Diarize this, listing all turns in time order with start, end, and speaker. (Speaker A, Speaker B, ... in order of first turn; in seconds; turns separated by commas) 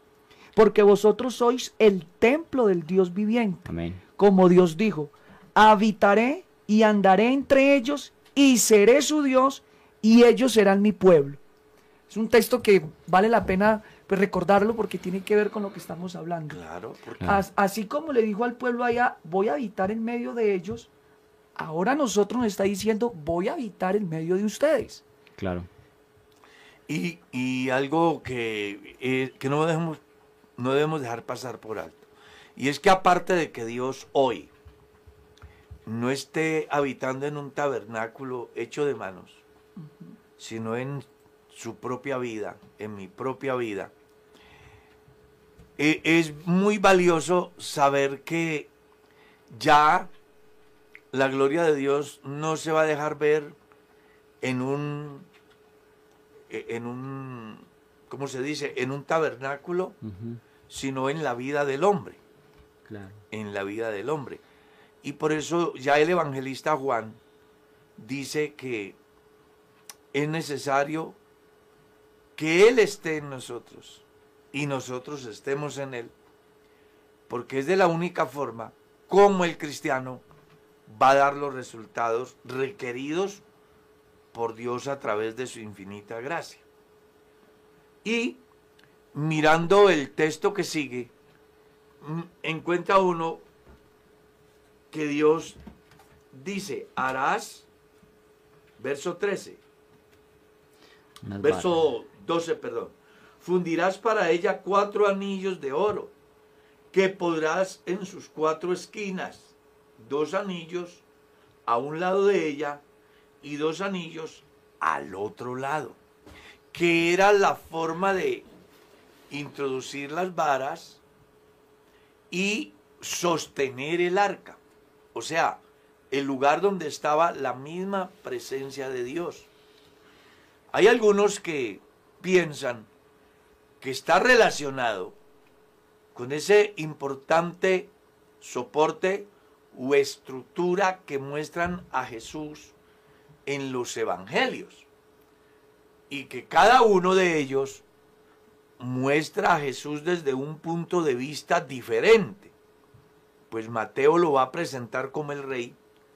Speaker A: 0.6-3.7, Speaker B: 3.7-4.0, Speaker A: 4.2-11.4, Speaker A: 12.1-16.6, Speaker C: 16.5-17.3, Speaker A: 17.2-20.9, Speaker A: 21.6-25.0, Speaker B: 25.4-25.7, Speaker C: 26.9-30.0, Speaker C: 30.6-34.5, Speaker C: 35.9-39.4, Speaker C: 40.4-43.9, Speaker C: 45.8-48.7, Speaker C: 49.5-50.1, Speaker C: 51.1-53.6, Speaker C: 54.4-55.3, Speaker C: 56.5-60.0, Speaker B: 60.0-60.4, Speaker C: 60.7-62.2, Speaker B: 62.9-63.2, Speaker C: 63.3-64.4, Speaker C: 65.0-67.2, Speaker C: 68.0-69.0, Speaker C: 70.1-71.2, Speaker C: 72.4-76.1, Speaker C: 77.3-80.2, Speaker C: 80.9-83.4, Speaker C: 84.3-86.7, Speaker C: 88.0-88.4, Speaker C: 89.1-91.1, Speaker C: 92.0-93.4, Speaker C: 94.9-95.6, Speaker C: 96.3-97.7, Speaker C: 98.8-99.6, Speaker B: 101.2-101.8, Speaker C: 101.4-106.1, Speaker C: 106.9-111.0, Speaker C: 111.7-112.8, Speaker C: 113.4-116.0, Speaker C: 116.7-118.5, Speaker C: 119.3-121.0, Speaker C: 122.3-124.6, Speaker C: 125.1-129.5, Speaker C: 130.7-132.9, Speaker C: 133.8-135.2, Speaker C: 136.2-142.8, Speaker C: 143.5-144.9, Speaker C: 146.1-147.8, Speaker C: 148.8-152.5, Speaker C: 153.5-155.8